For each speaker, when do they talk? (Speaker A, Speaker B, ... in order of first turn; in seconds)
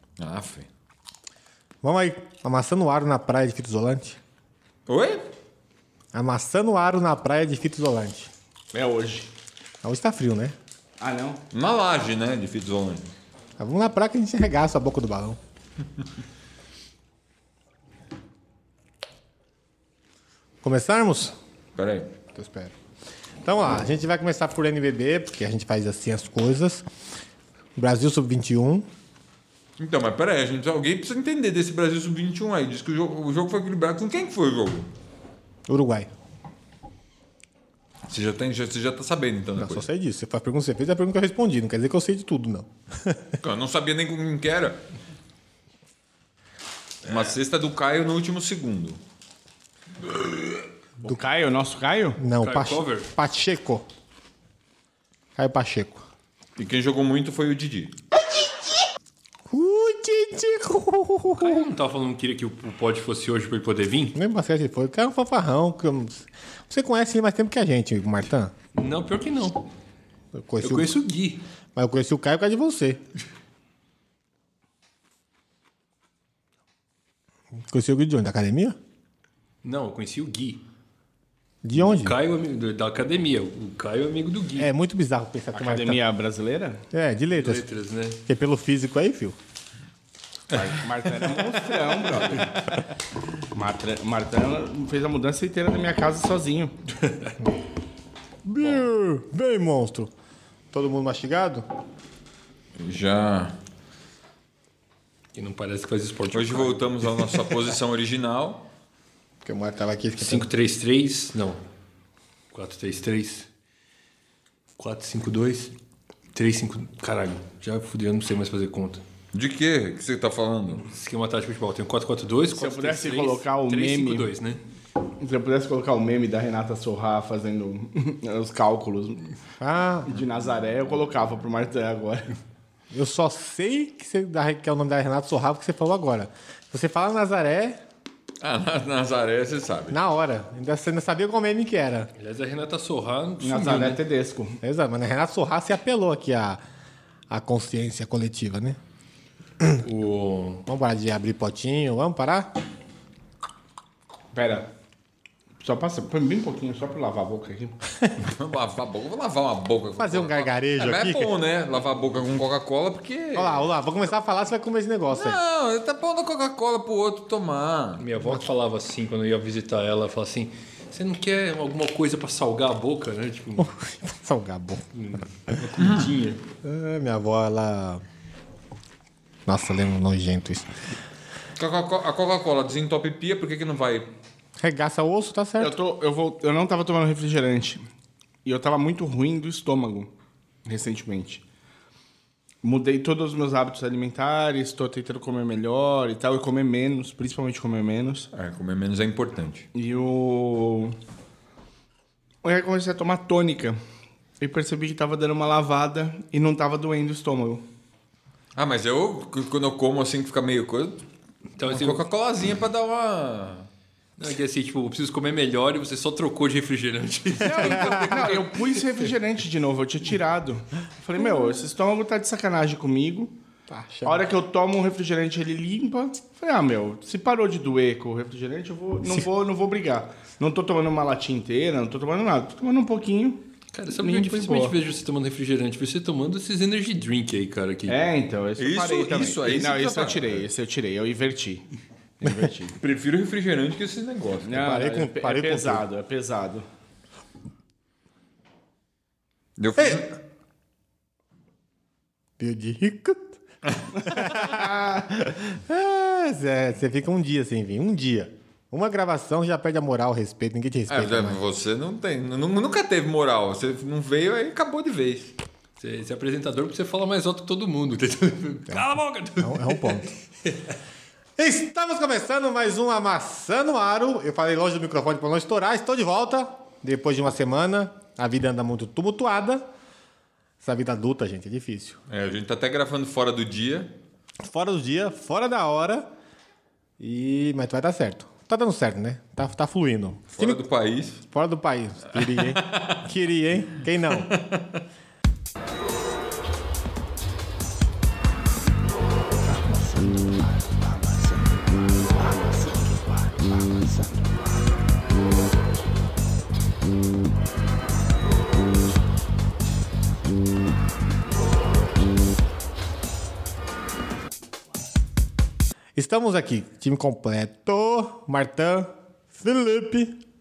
Speaker A: 0.2-0.7, 4.9-5.3, 11.5-13.1, 21.8-22.1, 29.8-34.9, 38.1-39.9, 43.4-44.8, 47.0-49.0, 50.2-50.4, 56.6-58.0, 102.8-103.6, 106.3-108.6, 119.3-120.8, 138.4-140.0, 158.2-163.7, 165.1-168.1, 175.8-176.1, 181.6-184.1, 198.3-199.7, 208.6-211.0, 211.6-213.7, 238.6-240.5, 242.8-244.6, 249.6-250.1, 253.8-254.4, 260.9-265.4, 282.1-283.9, 290.3-291.2, 292.2-293.0, 294.1-294.8
Speaker B: 1.8-4.2, 6.1-8.3, 9.8-10.6, 13.6-15.4, 20.6-21.4, 22.3-22.7, 23.4-26.9, 27.8-28.9, 35.7-36.1, 39.6-43.4, 52.2-53.9, 55.4-56.0, 59.5-61.7, 64.2-68.5, 70.3-71.0, 71.8-73.0, 77.7-78.8, 81.6-82.2, 84.6-86.0, 86.9-87.7, 88.3-89.4, 98.5-100.1, 100.7-101.7, 109.4-110.5, 129.6-130.1, 132.9-137.8, 139.9-142.1, 144.6-146.6, 147.3-148.8, 150.7-152.6, 160.0-161.3, 163.3-165.4, 173.6-174.9, 176.6-178.1, 179.5-180.7, 184.6-185.8, 217.7-218.2, 223.7-224.3, 244.6-245.8, 249.8-250.0, 252.4-253.4, 254.0-261.4, 268.7-270.2, 271.4-279.7, 280.6-282.0, 284.4-286.1, 287.0-290.6, 291.3-294.3, 316.0-320.2
Speaker C: 8.7-9.3, 11.0-11.4, 51.0-52.2, 85.5-86.8, 90.5-92.8, 93.5-96.8, 122.5-124.3, 125.2-129.3, 130.1-132.3, 143.4-144.6, 154.3-154.7, 155.6-157.8, 185.6-187.8, 188.4-190.1, 190.7-191.4, 192.6-198.3, 199.8-201.0, 202.4-203.8, 204.4-207.7, 217.4-223.3, 224.1-233.4, 234.0-234.8, 237.9-241.7, 242.2-242.8, 244.5-246.7, 299.5-301.4, 302.0-304.2
Speaker D: 52.4-53.1, 61.4-64.2, 68.8-69.7, 70.6-71.4, 79.6-80.6, 81.7-84.7, 87.3-88.2, 105.3-107.5, 110.2-111.6, 112.5-113.5, 114.8-115.7, 116.3-119.0, 120.9-124.6, 142.2-144.0, 149.8-150.7, 168.0-173.7, 174.9-176.4, 211.6-212.1, 214.2-218.5, 233.7-238.0, 265.8-270.7